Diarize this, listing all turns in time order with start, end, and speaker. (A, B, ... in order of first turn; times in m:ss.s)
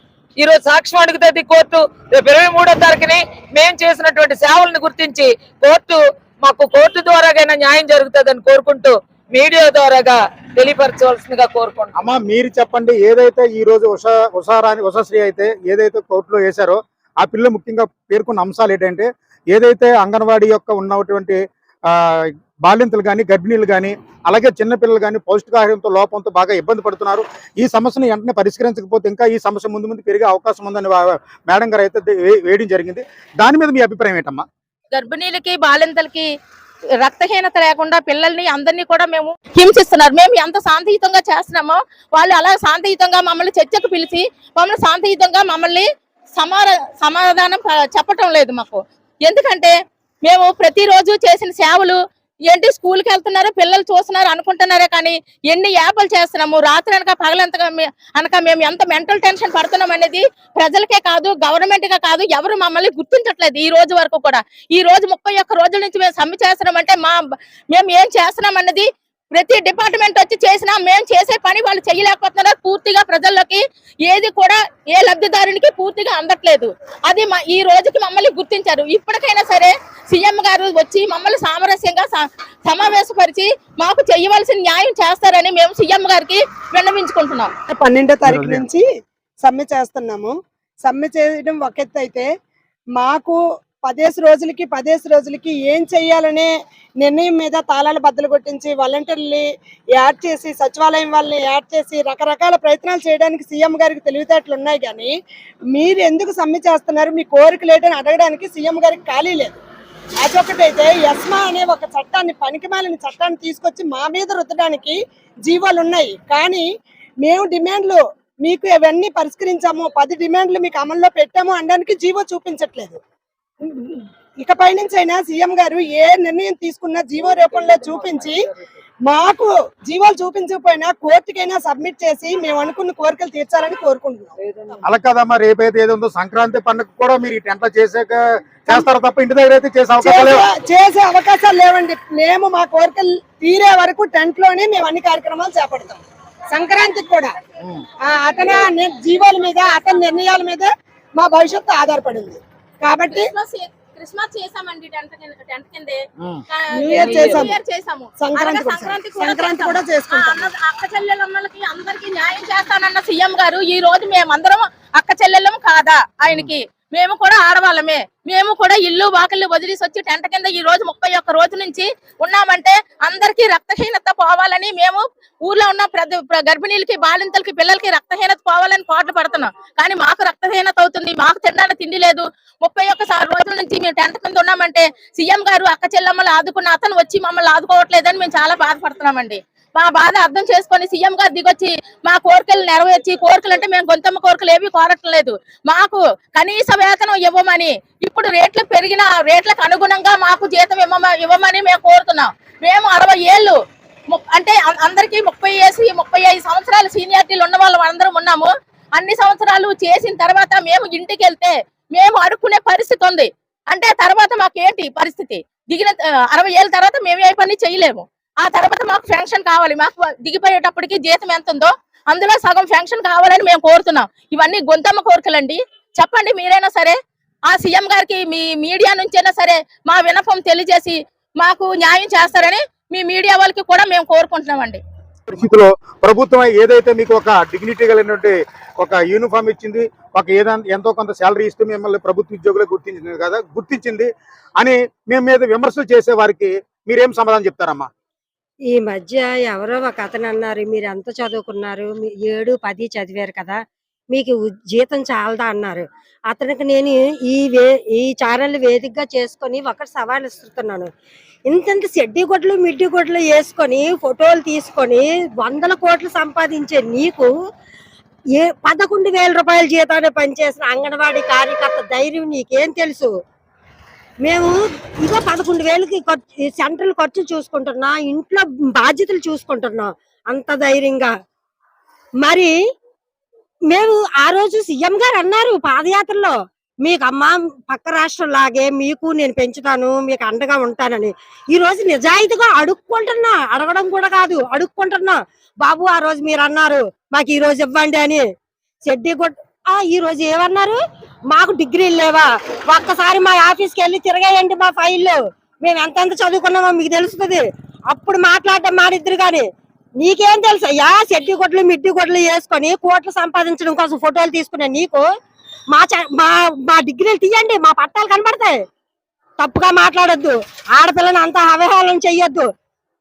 0:00.4-0:11.9 A
0:12.0-0:21.4 B
0:22.6-0:34.4 B
0:34.9-0:36.3 C
0:37.0-0:49.7 C
0:50.2-0:52.0 C
0:52.5-1:07.2 C
1:07.7-1:27.5 C
1:27.7-1:28.8 D
1:28.3-1:28.6 B
1:29.4-1:32.3 D
1:32.9-1:45.1 D
1:45.7-1:49.5 D
1:50.2-1:56.6 D
1:57.2-2:03.0 D
2:03.6-2:08.4 D
2:07.4-2:08.3 A
2:09.0-2:14.3 D
2:14.4-2:14.8 A
2:14.8-2:20.5 B
2:20.0-2:27.3 D
2:28.0-2:33.3 D
2:33.1-2:36.0 C
2:36.5-3:23.6 C
2:36.7-2:37.6 D
2:38.2-2:40.5 D
3:24.1-3:47.0 C
3:47.5-3:54.8 C
3:55.3-4:04.1 B
4:04.6-4:07.9 B
4:08.7-4:13.6 E
4:14.1-4:20.9 E
4:21.5-4:27.3 E
4:28.4-4:33.1 E
4:34.2-4:41.1 E
4:42.2-4:42.5 E
4:43.7-4:58.2 E
4:58.8-5:09.4 E
5:10.0-5:15.0 E
5:15.7-5:18.6 E
5:19.4-5:22.5 E